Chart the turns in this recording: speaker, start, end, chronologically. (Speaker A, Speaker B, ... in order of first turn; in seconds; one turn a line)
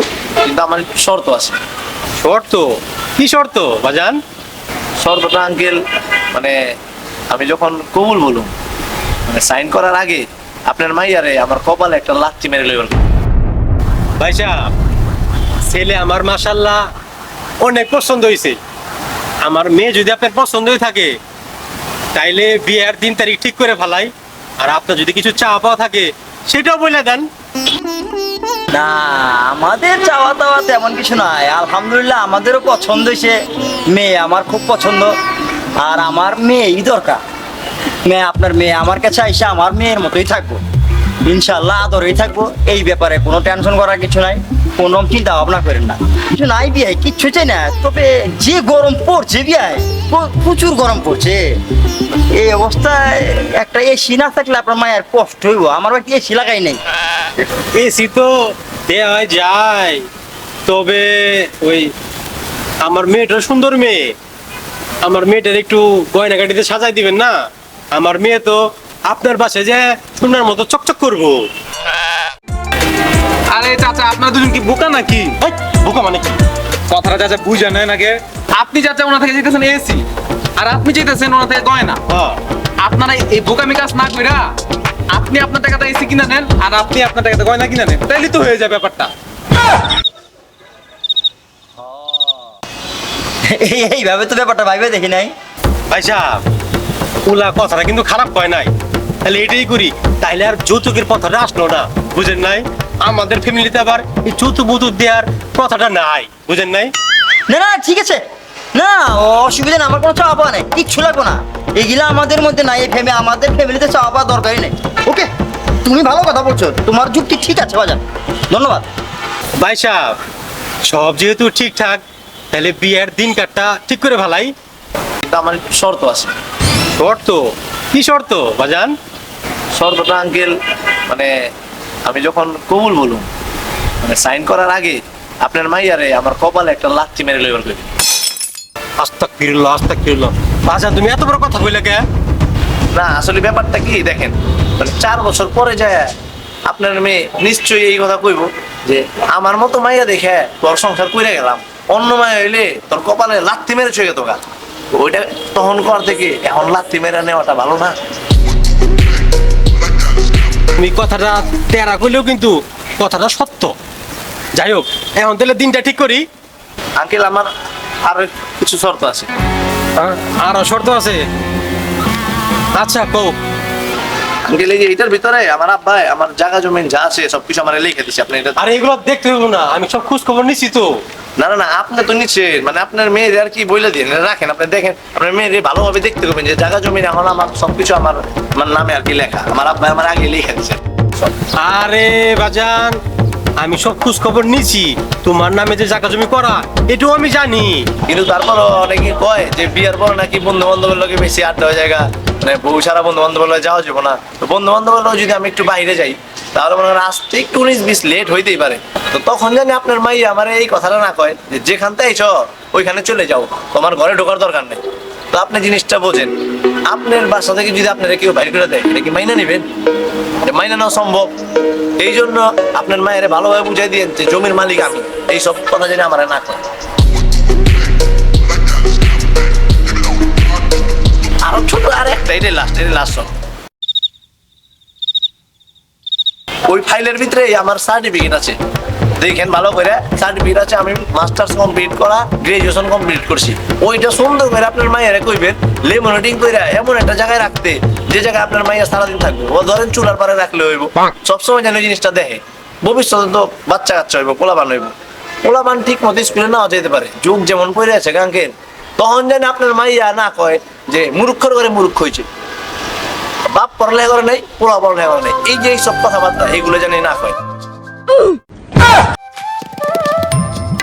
Speaker A: 0.4-1.6
Speaker B: 2.2-4.2
Speaker A: 5.0-5.8
Speaker A: 7.3-8.5
Speaker A: 9.3-13.0
Speaker B: 14.2-14.7
Speaker B: 15.7-16.8
Speaker B: 17.6-18.6
Speaker B: 19.4-21.1
Speaker B: 22.1-27.3
Speaker C: 28.7-35.1
Speaker C: 35.8-37.2
Speaker C: 38.0-40.6
Speaker C: 41.2-51.6
Speaker C: 52.3-56.8
Speaker B: 57.7-60.0
Speaker B: 60.6-61.9
Speaker B: 62.8-64.1
Speaker B: 65.0-67.3
Speaker B: 67.9-71.5
Speaker D: 73.5-75.4
Speaker B: 75.4-76.4
Speaker D: 76.9-82.0
Speaker B: 82.1-82.4
Speaker D: 82.8-84.5
Speaker D: 85.1-89.1
Speaker C: 91.8-92.5
Speaker C: 93.5-95.3
Speaker B: 95.9-96.4
Speaker B: 97.2-98.7
Speaker B: 99.2-106.9
Speaker C: 107.5-108.2
Speaker C: 108.7-115.3
Speaker C: 115.8-118.9
Speaker B: 119.6-120.2
Speaker B: 120.9-124.5
Speaker A: 125.2-126.3
Speaker B: 127.0-128.9
Speaker A: 129.7-130.6
Speaker A: 131.1-131.3
Speaker A: 132.0-133.3
Speaker A: 134.0-137.9
Speaker B: 139.0-142.0
Speaker A: 142.9-146.1
Speaker A: 146.7-154.4
Speaker A: 154.9-158.0
Speaker B: 160.8-163.7
Speaker B: 164.5-166.2
Speaker A: 167.0-167.5
Speaker A: 168.0-169.3
Speaker B: 170.0-171.2
Speaker B: 172.7-173.4
Speaker A: 174.4-178.6
Speaker B: 178.6-181.0
Speaker A: 181.4-190.8
Speaker B: 191.6-193.0
Speaker B: 193.6-197.9
Speaker A: 198.1-214.8
Speaker A: 215.3-216.3
Speaker A: 216.9-219.7
Speaker A: 220.4-221.3
Speaker A: 222.0-226.6
Speaker A: 231.4-233.3
Speaker A: 236.7-238.6
Speaker A: 239.2-262.3
Speaker A: 263.5-267.4